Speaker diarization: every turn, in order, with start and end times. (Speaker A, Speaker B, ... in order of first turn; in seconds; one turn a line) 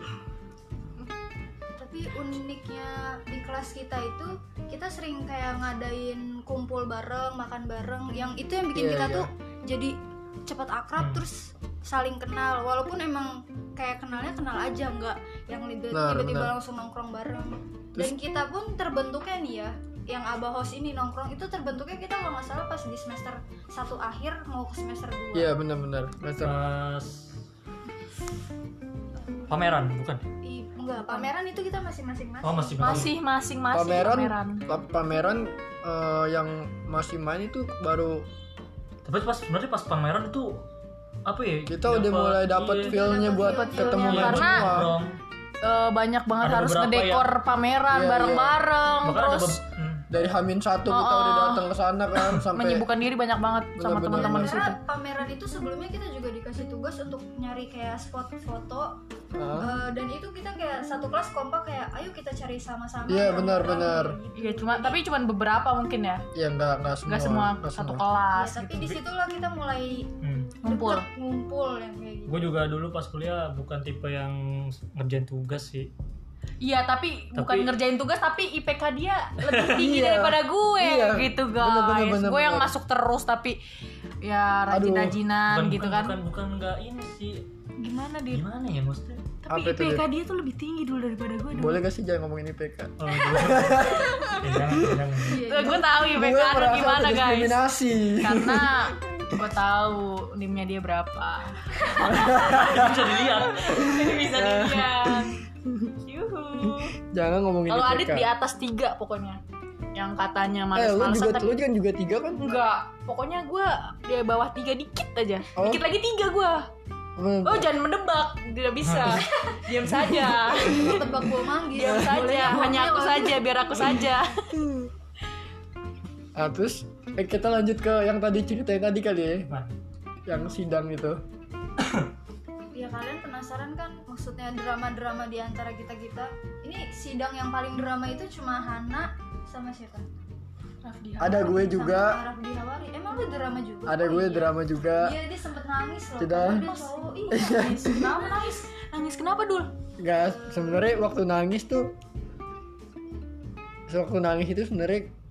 Speaker A: 1.8-25.5
Speaker B: 8.7-9.3
Speaker C: 11.0-11.2
Speaker B: 15.9-16.5
Speaker B: 25.3-26.5
Speaker C: 26.4-27.3
Speaker C: 29.5-30.2
Speaker A: 30.4-33.0
Speaker D: 31.0-31.3
Speaker C: 32.4-33.1
Speaker D: 32.8-34.6
Speaker B: 33.7-38.3
Speaker C: 39.0-40.6
Speaker C: 41.2-43.0
Speaker B: 41.7-44.9
Speaker A: 42.8-44.4
Speaker D: 43.3-44.7
Speaker C: 44.0-45.2
Speaker D: 45.6-49.6
Speaker C: 46.4-47.3
Speaker B: 47.9-48.6
Speaker C: 49.0-50.0
Speaker B: 50.1-52.9
Speaker D: 50.9-51.6
Speaker D: 52.5-54.8
Speaker B: 53.8-54.7
Speaker A: 54.1-59.0
Speaker B: 59.3-59.8
Speaker A: 59.5-65.0
Speaker B: 63.1-64.2
Speaker D: 64.3-66.2
Speaker B: 66.3-68.0
Speaker D: 67.1-68.9
Speaker A: 68.3-70.1
Speaker C: 70.2-70.5
Speaker D: 70.6-71.0
Speaker A: 70.6-72.5
Speaker C: 72.3-75.9
Speaker D: 76.6-83.6
Speaker C: 77.3-77.7
Speaker C: 79.4-79.8
Speaker B: 79.7-82.7
Speaker D: 84.2-86.2
Speaker B: 84.7-85.2
Speaker C: 85.5-87.4
Speaker D: 87.8-88.4
Speaker C: 88.3-89.2
Speaker D: 89.4-91.8
Speaker B: 89.5-90.0
Speaker B: 91.5-95.2
Speaker C: 93.0-95.4
Speaker A: 95.2-95.9
Speaker D: 95.3-97.6
Speaker B: 95.9-99.3
Speaker D: 98.2-105.4
Speaker B: 102.0-103.1
Speaker C: 102.4-103.9
Speaker B: 103.7-105.7
Speaker D: 106.0-106.9
Speaker B: 107.0-108.3
Speaker D: 107.7-109.4
Speaker D: 109.9-111.5
Speaker B: 110.7-112.7
Speaker D: 112.4-116.7
Speaker B: 115.5-115.8
Speaker B: 117.2-117.7
Speaker D: 117.4-124.6
Speaker C: 118.8-119.2
Speaker B: 119.9-121.1
Speaker A: 120.5-124.0
Speaker B: 121.8-122.4
Speaker B: 124.5-124.9
Speaker B: 126.3-129.5
Speaker C: 129.5-129.7
Speaker B: 130.2-131.2
Speaker C: 131.8-132.1
Speaker A: 132.7-140.1
Speaker D: 140.8-141.6
Speaker B: 141.2-142.2
Speaker A: 141.3-148.4
Speaker B: 143.8-145.1
Speaker B: 146.2-146.7
Speaker D: 146.5-149.7
Speaker B: 147.3-148.1
Speaker B: 150.0-151.9
Speaker A: 150.2-150.9
Speaker B: 153.9-155.1